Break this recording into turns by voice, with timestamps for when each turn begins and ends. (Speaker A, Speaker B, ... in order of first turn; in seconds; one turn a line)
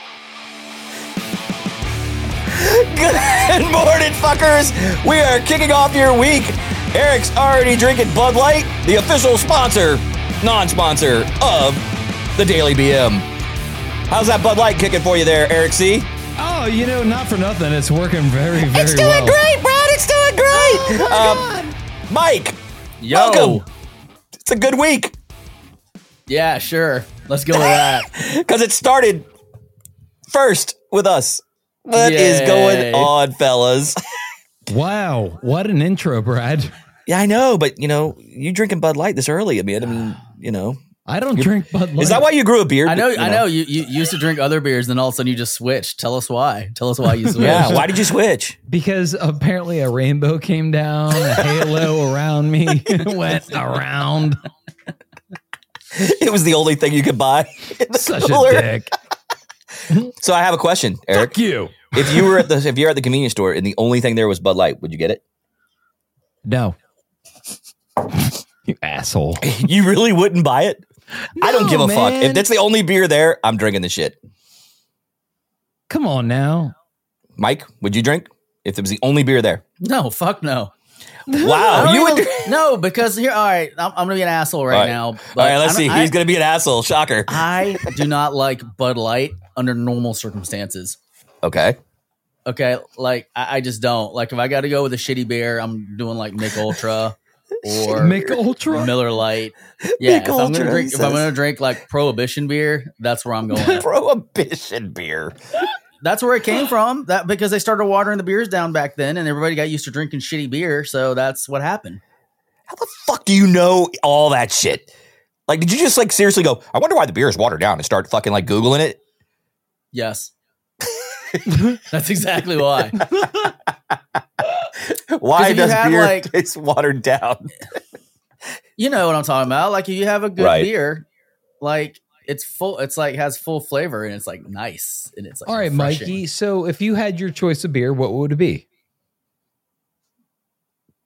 Speaker A: 2.5-13.3
Speaker A: 14.1-16.1
Speaker B: 16.4-19.4
Speaker A: 18.6-21.5
Speaker B: 20.5-21.8
Speaker A: 22.1-22.6
Speaker C: 23.0-23.6
Speaker A: 23.1-23.6
Speaker A: 24.4-25.1
Speaker C: 26.3-28.1
Speaker A: 27.6-29.3
Speaker A: 30.3-34.0
Speaker C: 31.9-33.1
Speaker B: 34.7-36.7
Speaker A: 37.1-40.8
Speaker B: 41.1-42.2
Speaker A: 41.4-43.4
Speaker C: 42.9-47.8
Speaker A: 47.4-48.6
Speaker B: 47.4-47.8
Speaker B: 48.7-54.4
Speaker A: 55.9-58.7
Speaker B: 57.9-58.9
Speaker A: 60.1-61.4
Speaker B: 61.1-62.5
Speaker A: 61.9-65.2
Speaker B: 66.4-66.8
Speaker B: 68.1-69.5
Speaker A: 69.4-70.8
Speaker B: 71.3-72.5
Speaker A: 71.4-74.2
Speaker B: 75.9-76.7
Speaker A: 77.4-79.6
Speaker C: 79.8-80.7
Speaker B: 81.3-81.9
Speaker A: 81.4-82.6
Speaker C: 81.7-86.1
Speaker A: 84.7-87.9
Speaker C: 87.3-91.0
Speaker A: 91.4-91.8
Speaker C: 92.5-103.8
Speaker B: 97.9-98.9
Speaker A: 99.8-101.3
Speaker A: 103.7-105.4
Speaker C: 106.0-112.0
Speaker A: 112.7-114.9
Speaker A: 115.5-119.0
Speaker C: 119.9-120.3
Speaker A: 120.9-121.4
Speaker C: 121.8-123.1
Speaker A: 124.7-127.5
Speaker C: 125.3-126.3
Speaker C: 128.8-131.1
Speaker A: 130.4-130.7
Speaker C: 131.6-136.2
Speaker B: 135.5-138.6